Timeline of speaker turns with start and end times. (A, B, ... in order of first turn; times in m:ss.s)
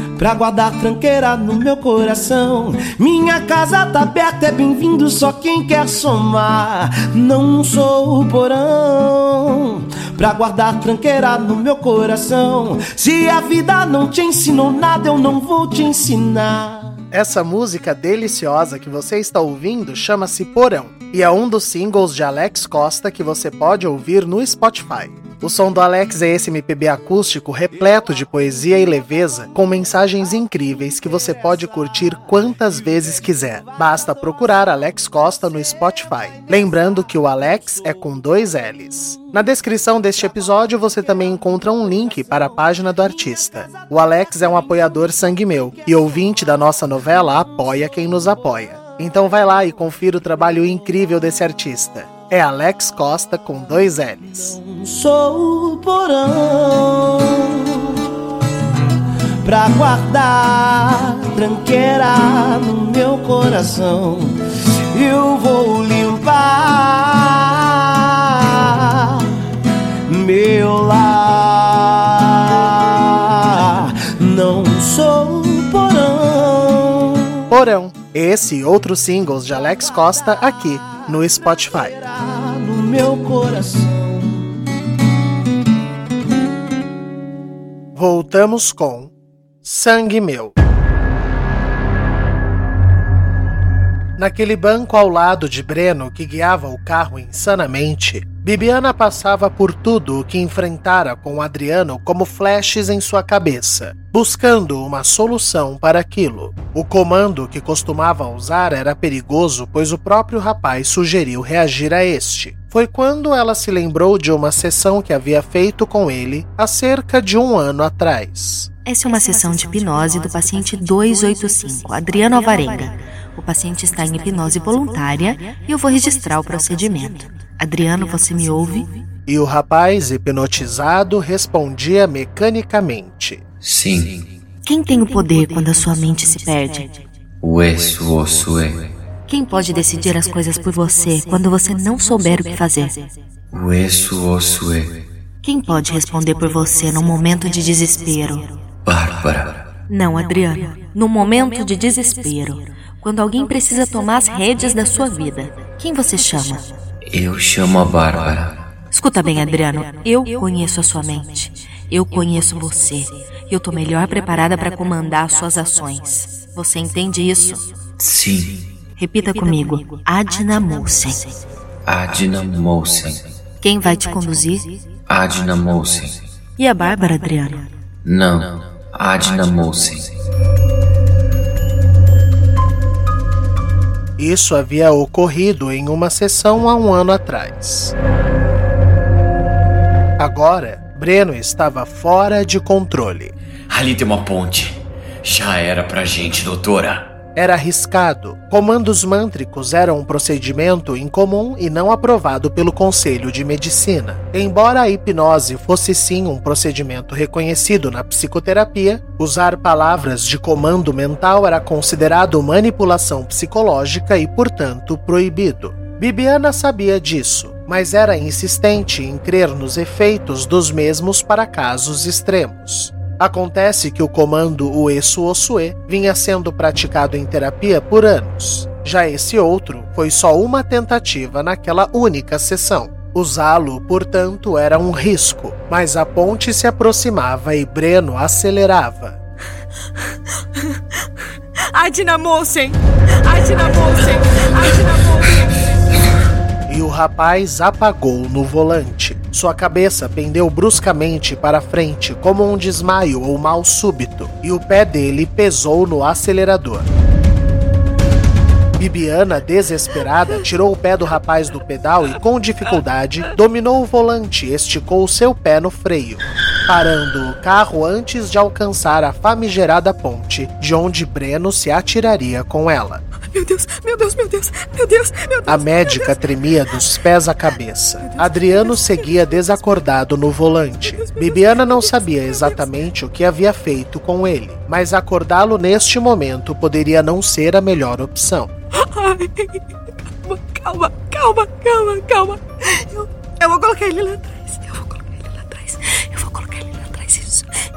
0:00.2-0:17.0 A
0:17.1-0:54.6 B
0:54.6-0:57.7 A
0:59.4-1:04.4 A
1:04.9-1:09.2 A
1:10.1-1:17.3 A
1:17.5-1:22.0 B
1:22.1-1:24.4 A
1:27.9-1:29.1 B
1:29.6-1:30.5 B
1:34.2-1:58.7 B
1:58.8-2:09.0 C
2:09.3-2:13.4 B
2:13.6-2:14.2 D
2:14.6-2:17.0 C
2:17.4-2:18.9 D
2:19.3-2:23.1 C
2:23.5-2:25.0 D
2:25.4-2:28.6 C
2:28.8-2:29.6 D
2:29.9-2:36.7 C
2:37.1-2:38.6 D
2:38.9-2:47.8 C
2:48.0-2:48.6 D
2:49.0-2:51.4 C
2:51.8-2:53.3 D
2:53.6-2:54.8 C
2:55.1-2:56.2 D
2:56.6-2:57.7 C
2:58.0-3:00.1 D
3:04.2-3:07.9 B
3:10.2-3:13.3 B
3:13.7-3:17.1 D
3:17.4-3:59.2 B
4:01.7-4:05.7 E
4:06.7-4:16.9 B
4:18.8-4:33.0 B
4:33.3-4:36.2 E
4:35.5-4:48.5 B
4:38.0-4:39.4 E
4:40.9-4:42.7 E
4:48.8-4:57.5 E